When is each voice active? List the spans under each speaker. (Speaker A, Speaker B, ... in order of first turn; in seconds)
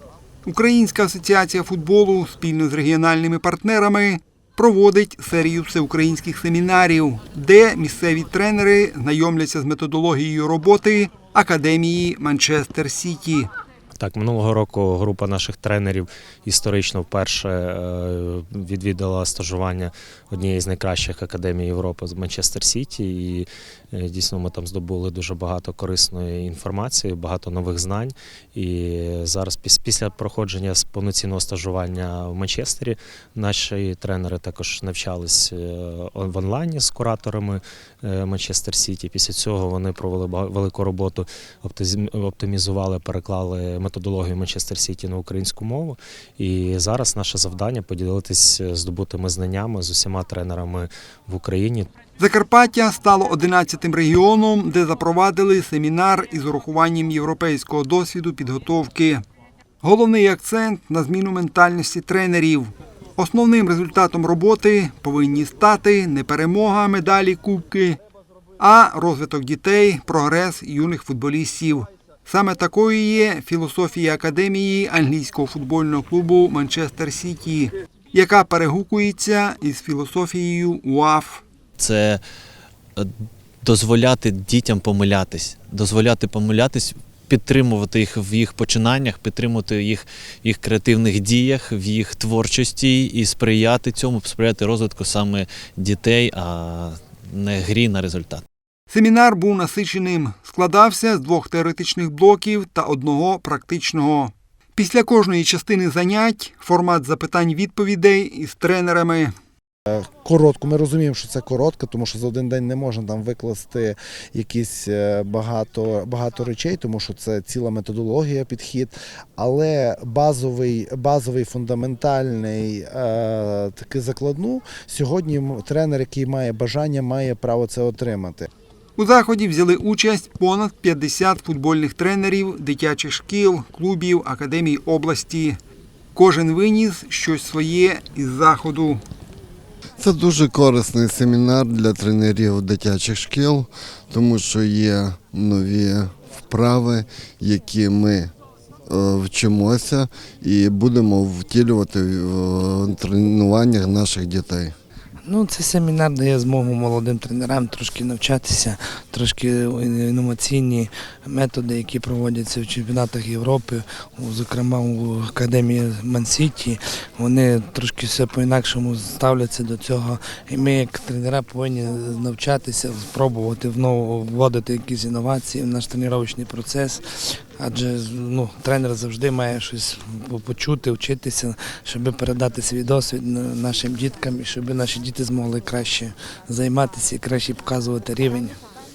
Speaker A: 0.5-13.5, 52.2-59.2, 59.8-68.0, 68.6-81.4, 98.9-109.3, 129.0-135.6, 136.2-139.0
Speaker B: 14.0-51.9
Speaker C: 81.8-82.2, 83.6-98.4
Speaker D: 109.9-128.5
Speaker E: 140.0-148.3, 148.9-154.7
Speaker F: 155.2-188.6